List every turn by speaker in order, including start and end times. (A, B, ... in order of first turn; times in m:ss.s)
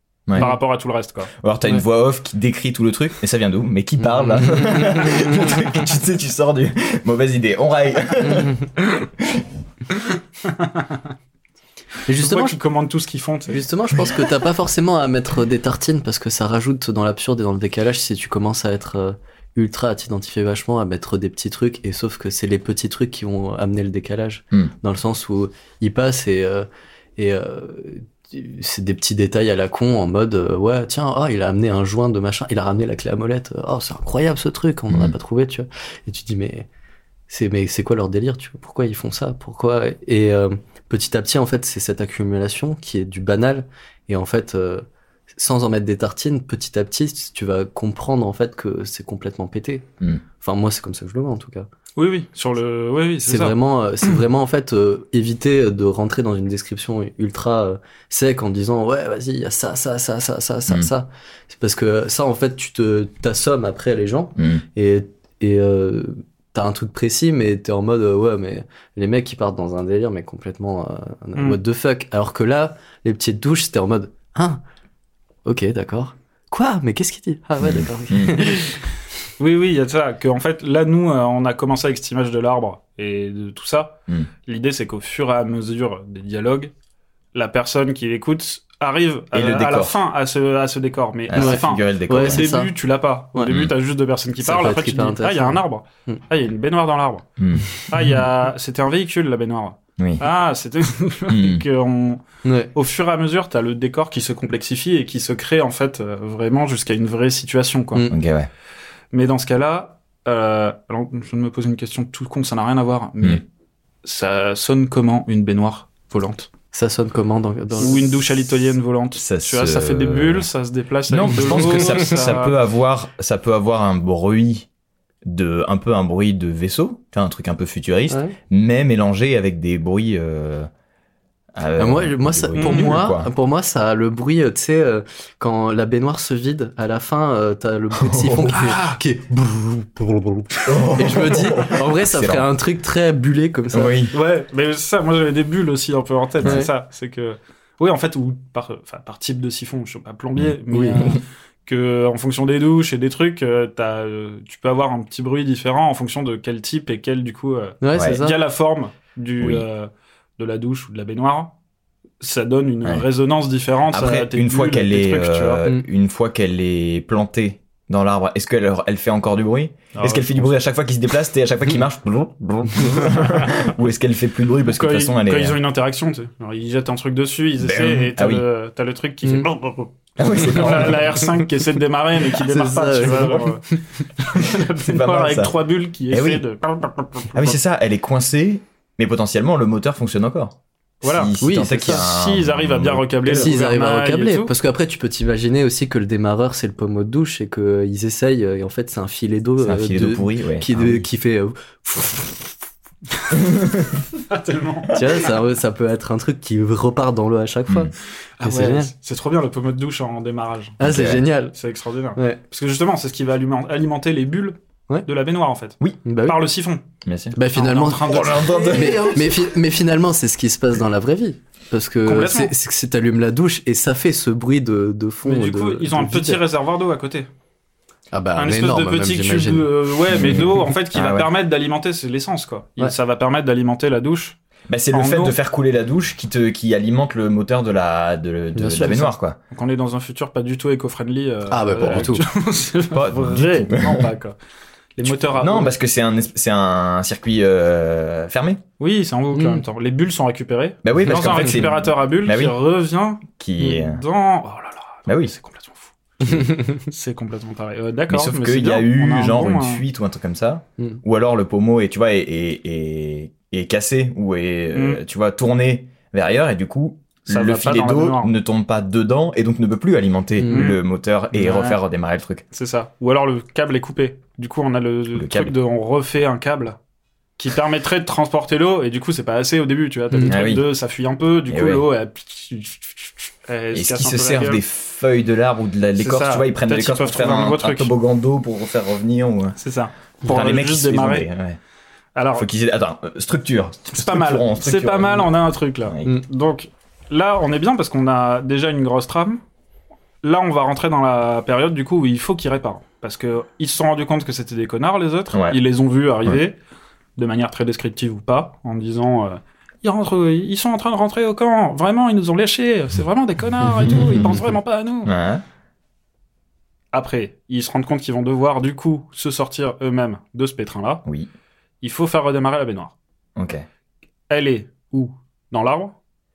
0:00.3-0:00.6 A
0:00.3-0:01.3 B
0:01.4-0:09.4 A
0:04.2-0:04.9 C
0:12.1-0:12.6 C
0:12.2-0:13.6 B
0:13.5-0:36.7 C
0:37.3-0:49.9 C
0:50.4-0:51.7 C
0:52.0-0:53.6 B
0:53.2-1:14.6 C
1:04.4-1:04.6 A
1:15.4-1:18.8 C
1:17.6-1:18.4 A
1:19.4-1:26.7 B
1:27.3-1:37.2 B
1:29.3-1:30.0 A
1:31.3-1:32.4 A
1:31.3-1:32.7 C
1:33.5-1:33.7 A
1:34.4-1:36.2 C
1:37.4-1:37.8 A
1:37.9-1:42.2 B
1:40.0-1:40.2 A
1:41.3-1:41.6 A
1:42.4-1:42.7 C
1:42.7-1:48.0 B
1:48.1-1:48.5 A
1:49.1-1:53.4 B
1:54.0-1:56.5 B
1:56.7-1:58.3 C
1:57.8-2:02.6 B
1:59.1-2:00.5 A
2:01.1-2:04.7 A
2:01.4-2:01.9 C
2:05.2-2:10.7 A
2:08.1-2:08.4 C
2:11.5-2:13.3 A
2:11.8-2:24.0 C
2:12.6-2:13.0 B
2:18.0-2:18.6 A
2:18.5-2:19.0 B
2:20.6-2:22.5 A
2:23.7-2:24.1 A
2:24.1-2:41.5 B
2:26.4-2:26.7 C
2:30.7-2:31.0 C
2:37.8-2:38.4 C
2:37.9-2:38.2 A
2:42.2-2:45.6 B
2:43.9-2:55.6 A
2:49.9-2:50.5 B
2:52.9-2:53.5 B
2:54.7-3:03.6 B
2:57.6-2:58.4 A
3:00.2-3:01.3 A
3:02.4-3:03.8 C
3:04.2-3:07.6 B
3:04.8-3:05.5 A
3:06.1-3:06.4 A
3:07.3-3:13.5 A
3:11.0-3:14.5 B
3:11.4-3:12.1 C
3:13.2-3:22.6 C
3:19.6-3:21.1 A
3:24.3-3:25.0 B
3:24.9-3:28.9 C
3:28.4-3:30.8 B
3:30.8-3:31.6 C
3:30.8-3:31.2 A
3:31.5-3:36.8 B
3:36.0-3:36.5 C
3:37.0-3:37.4 A
3:37.3-3:46.4 C
3:37.5-3:38.8 B
3:38.0-3:39.4 A
3:42.0-3:42.5 B
3:45.2-3:47.3 B
3:48.1-3:49.7 C
3:48.4-3:54.4 B
3:50.1-3:51.3 A
3:54.7-3:59.4 A
3:54.9-3:55.4 B
3:58.5-3:59.1 C
3:59.5-4:04.4 B
4:01.5-4:02.2 C
4:01.8-4:02.2 A
4:02.9-4:04.1 A
4:05.0-4:05.7 B
4:05.3-4:08.6 A
4:08.8-4:19.8 B
4:09.3-4:09.6 C
4:10.8-4:12.6 A
4:13.4-4:14.0 A
4:15.1-4:15.3 A
4:18.1-4:32.4 A
4:24.7-4:25.0 B
4:27.2-4:28.3 B
4:30.4-4:30.7 C
4:30.5-4:30.8 B
4:31.3-4:31.8 B
4:32.5-4:36.8 B
4:35.1-4:35.5 A
4:37.4-4:44.6 B
4:40.1-4:40.4 C
4:40.2-4:40.6 A
4:41.5-4:41.8 A
4:43.7-4:49.6 A
4:46.0-4:47.9 B
4:49.6-4:51.3 B
4:50.2-4:51.6 A
4:52.1-4:52.5 B
4:52.4-4:55.3 A
4:53.9-4:59.4 B
4:55.8-4:56.1 A
5:00.2-5:06.6 B
5:05.3-5:05.6 A
5:07.2-5:15.1 B
5:13.8-5:14.4 A
5:15.0-5:15.4 A
5:16.9-5:21.0 B
5:21.8-5:22.9 B
5:23.4-5:23.6 A
5:24.3-5:25.9 B